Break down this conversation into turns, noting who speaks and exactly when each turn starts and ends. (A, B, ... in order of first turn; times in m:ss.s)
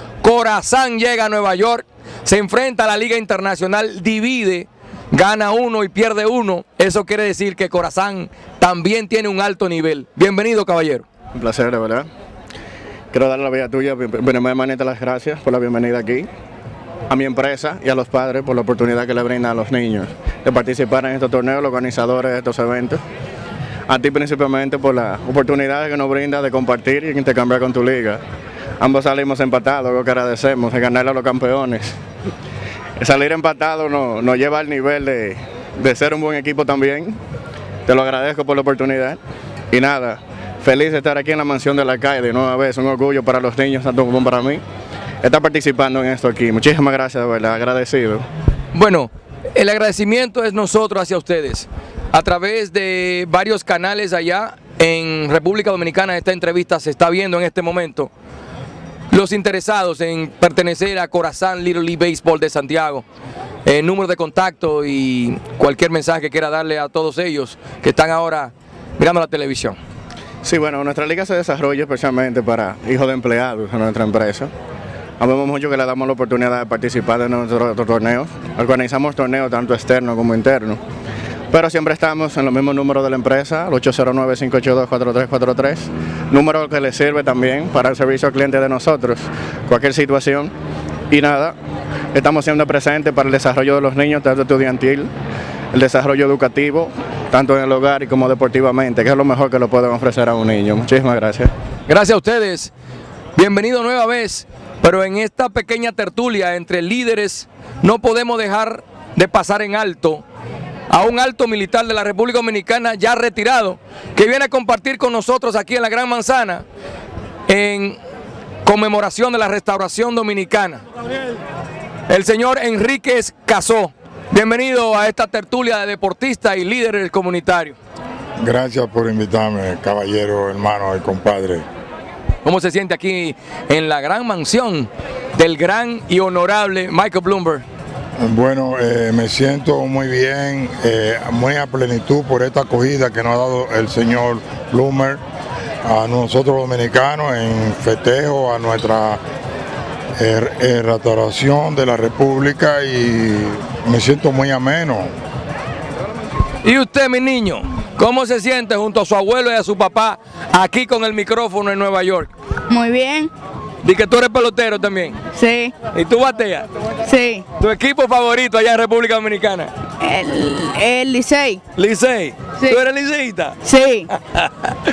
0:00.2-0:11.0 A
0:11.4-0:12.1 B
0:13.1-0:16.3 B
0:17.1-0:23.0 B
0:23.9-0:28.2 B
0:28.8-0:31.9 B
0:33.0-0:37.2 B
0:37.9-0:39.2 B
0:39.7-0:44.6 B
0:45.2-0:48.2 B
0:48.7-0:58.1 A
0:59.1-1:03.0 A
1:03.7-1:09.8 A
1:10.4-1:14.5 B
1:15.2-1:20.8 B
1:21.5-1:30.5 B
1:31.1-1:31.5 B
1:32.1-1:35.1 B
1:35.7-1:41.5 B
1:41.9-1:42.7 A
1:43.4-1:50.2 A
1:50.9-1:56.6 A
1:57.5-1:58.0 A
1:58.6-2:00.8 A
2:02.1-2:07.8 A
2:08.4-2:11.6 C
2:12.4-2:17.6 A
2:18.2-2:25.2 C
2:25.8-2:29.2 C
2:30.2-2:35.1 C
2:36.6-2:42.3 A
2:42.7-2:43.3 D
2:43.8-2:45.2 A
2:45.3-2:45.8 D
2:45.8-2:46.7 A
2:47.0-2:47.4 D
2:47.6-2:49.7 A
2:50.0-2:51.6 D
2:51.8-2:53.6 A
2:53.6-2:54.1 D
2:54.3-2:54.7 A